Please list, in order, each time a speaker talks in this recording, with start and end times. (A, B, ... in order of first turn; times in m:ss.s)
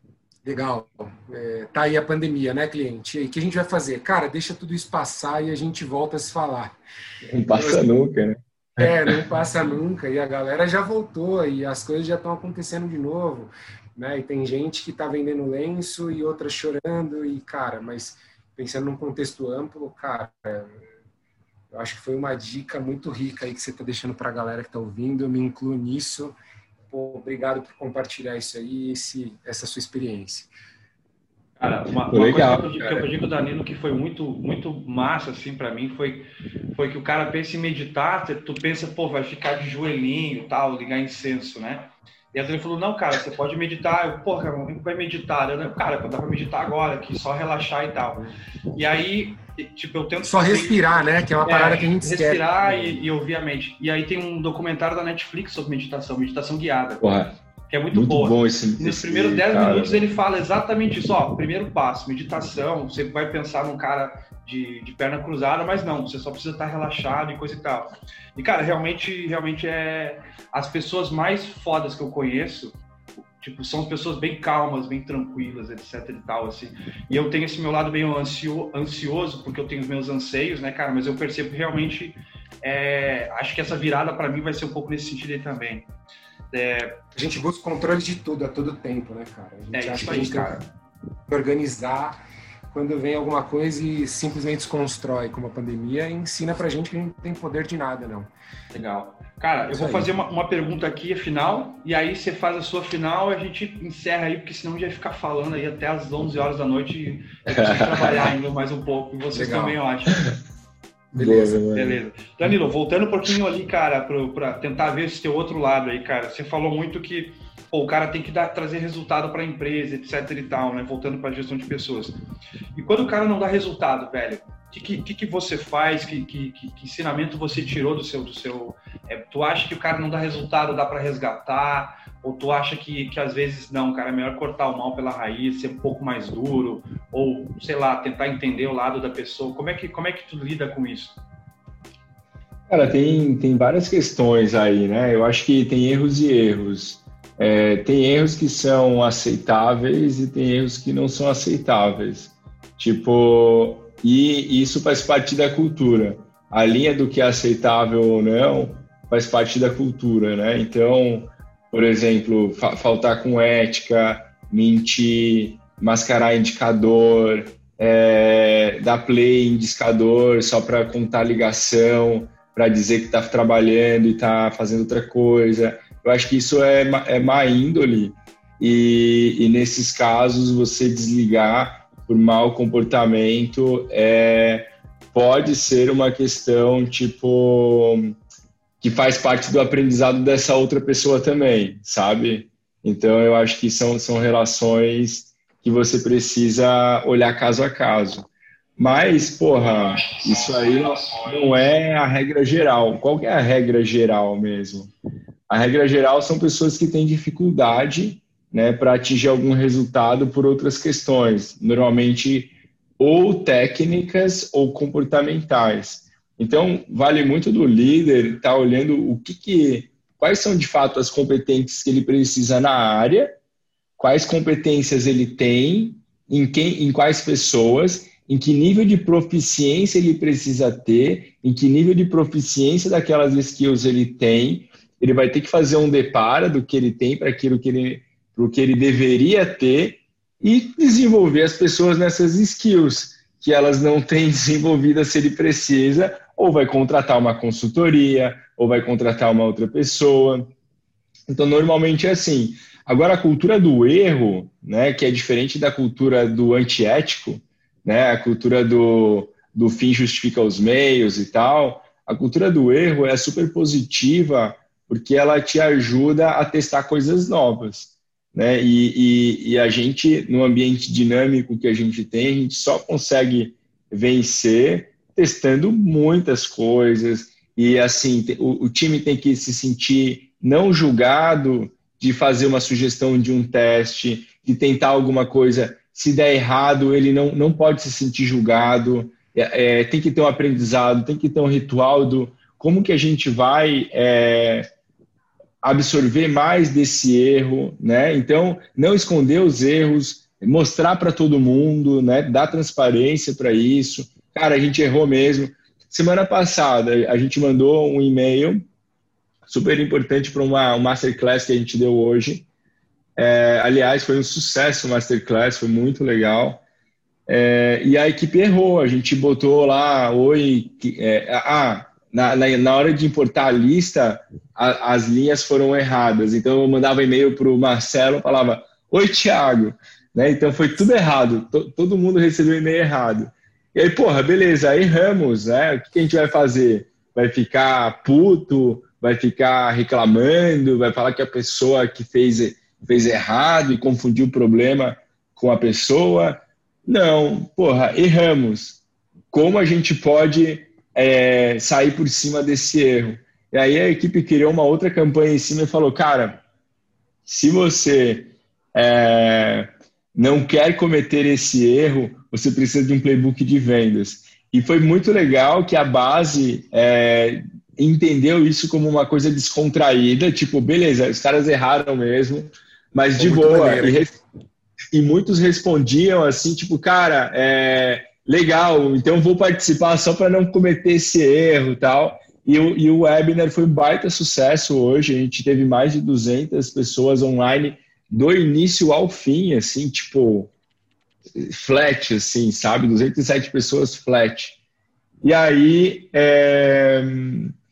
0:00.4-0:06.8 A
0:07.3-0:09.2 B
0:07.5-0:07.9 A
0:08.8-0:20.9 A
0:21.7-0:26.4 A
0:26.9-0:30.5 A
0:31.6-0:48.2 C
0:32.1-0:33.1 B
0:48.7-0:57.1 C
0:50.2-0:53.0 A
0:57.0-0:57.4 B
0:57.7-1:12.8 C
0:57.9-1:00.0 B
1:13.4-1:25.9 C
1:26.5-1:27.0 C
1:27.2-1:30.6 A
1:29.7-1:30.7 C
1:31.3-1:32.2 A
1:32.7-1:38.3 A
1:38.7-1:50.4 C
1:39.7-1:40.1 A
1:47.5-1:48.3 B
1:49.3-1:49.8 A
1:51.1-1:51.6 A
1:51.1-1:52.0 B
1:51.6-2:02.2 C
2:02.7-2:21.2 C
2:22.7-3:08.1 B
3:08.8-3:24.9 B
3:25.5-3:43.4 B
3:44.0-4:10.5 B
4:11.3-4:54.7 B
4:55.6-5:08.6 B
5:09.4-5:12.5 B
5:13.2-5:16.6 B
5:17.3-5:56.4 B
5:57.3-6:14.2 B
6:13.2-6:14.1 A
6:14.9-6:30.5 B
6:31.4-6:34.6 B
6:35.2-6:37.5 B